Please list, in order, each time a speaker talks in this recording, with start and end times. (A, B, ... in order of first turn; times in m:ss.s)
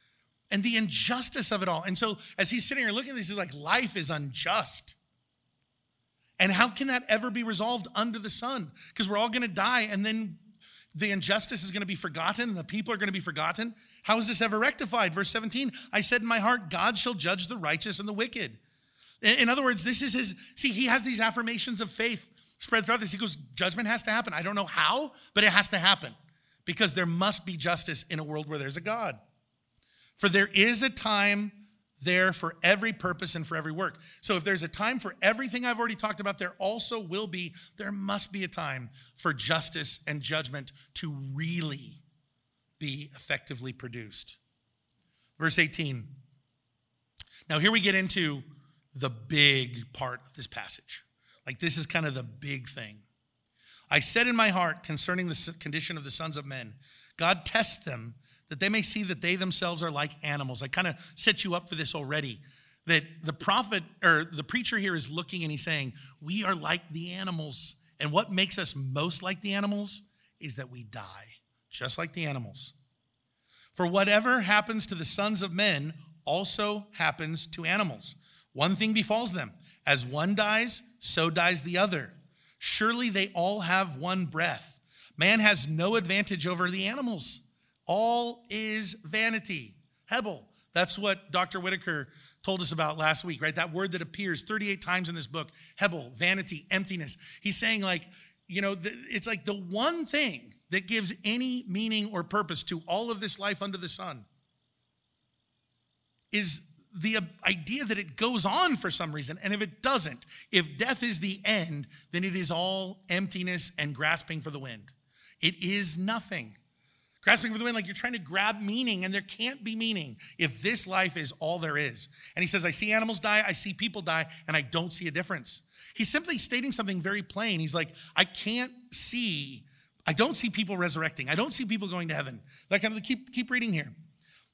0:00.5-0:05.0 A
0:06.4-0:10.4 A
0:10.9-0:18.6 A
0:19.2-0:29.2 A
0:30.2-0:42.0 A
0:42.8-0:44.4 A
0:45.4-0:46.2 A
0:47.5-0:53.0 A
0:53.9-1:12.8 A
1:13.7-1:44.3 A
1:46.3-1:56.6 A
1:57.2-2:13.9 A